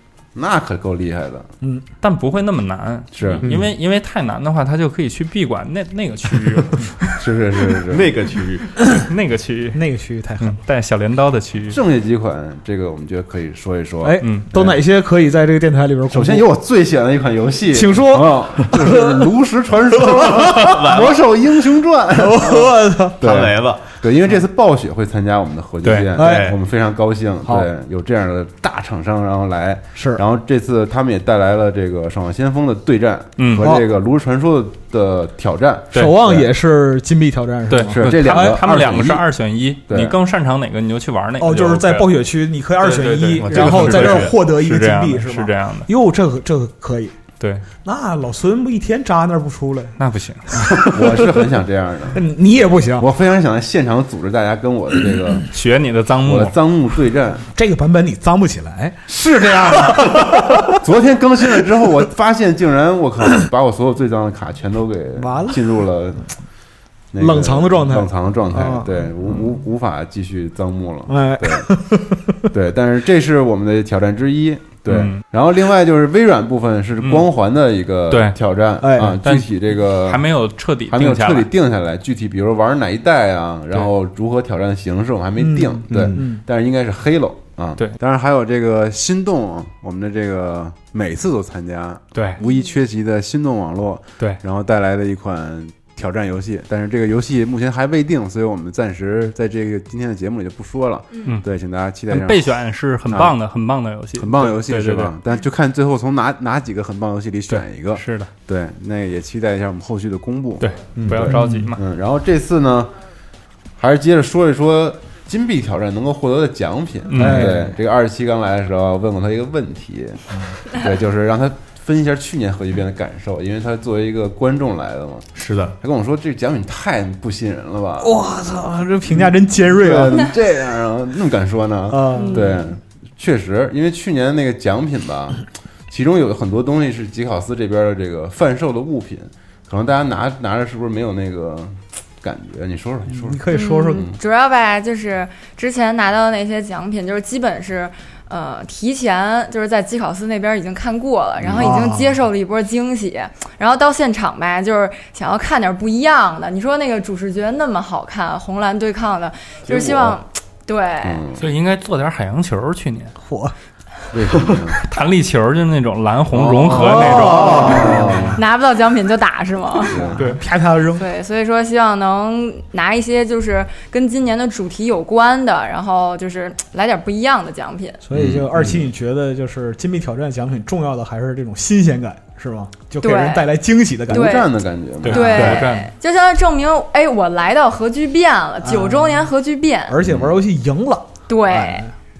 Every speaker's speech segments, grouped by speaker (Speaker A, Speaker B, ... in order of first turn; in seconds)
Speaker A: 0.3-1.5, 3.1-3.5, 7.2-8.1, 11.7-14.8, 16.1-36.5, 37.9-39.2, 39.9-40.2, 50.8-52.2, 53.0-55.5, 56.2-57.5, 59.1-66.2, 67.1-71.7, 72.5-80.2, 80.9-103.3, 104.2-112.9, 113.8-125.3, 125.8-128.2, 129.1-144.2, 151.4-151.8, 159.7-160.2, 161.0-161.4, 164.1-164.8, 166.3-168.4, 169.9-170.2, 178.1-178.8, 184.1-185.6, 190.0-190.4
Speaker B: 2.0-7.2, 8.9-11.8, 14.2-14.5, 25.8-26.1, 33.4-33.7, 37.7-42.1, 42.8-45.9, 47.4-47.6, 50.0-50.6, 55.5-56.5, 74.9-75.2, 77.0-77.3, 78.1-78.4, 79.2-81.5, 92.1-92.4, 102.1-105.1, 107.5-108.3, 110.6-111.8, 117.1-117.6, 161.4-163.1, 164.8-168.0, 185.0-185.9
Speaker C: 3.4-3.7, 7.9-8.6, 20.6-21.3, 23.2-23.8, 26.2-26.6, 43.4-44.4, 85.9-86.2, 111.0-111.3, 125.3-125.7
Speaker D: 9.7-10.6, 14.0-16.4, 17.7-19.2, 20.3-20.7, 22.1-23.2, 26.1-26.5, 29.9-30.2, 35.9-38.6, 41.4-47.1, 47.8-50.0, 50.5-51.5, 52.1-53.1, 57.5-60.8, 65.2-65.8, 67.2-69.1, 71.1-72.4, 78.8-79.2, 85.4-86.4, 111.3-111.7, 117.2-117.7, 128.0-130.3, 131.9-132.5, 143.1-144.1, 151.6-152.2, 163.2-163.5, 166.7-168.4, 169.8-171.1, 178.0-184.4, 185.1-185.6, 188.6-189.3, 189.9-191.9
Speaker E: 92.4-92.7, 132.1-132.6, 143.5-161.2, 168.3-169.9, 170.9-178.0, 183.0-183.5, 184.1-184.5, 185.1-189.9, 191.3-191.8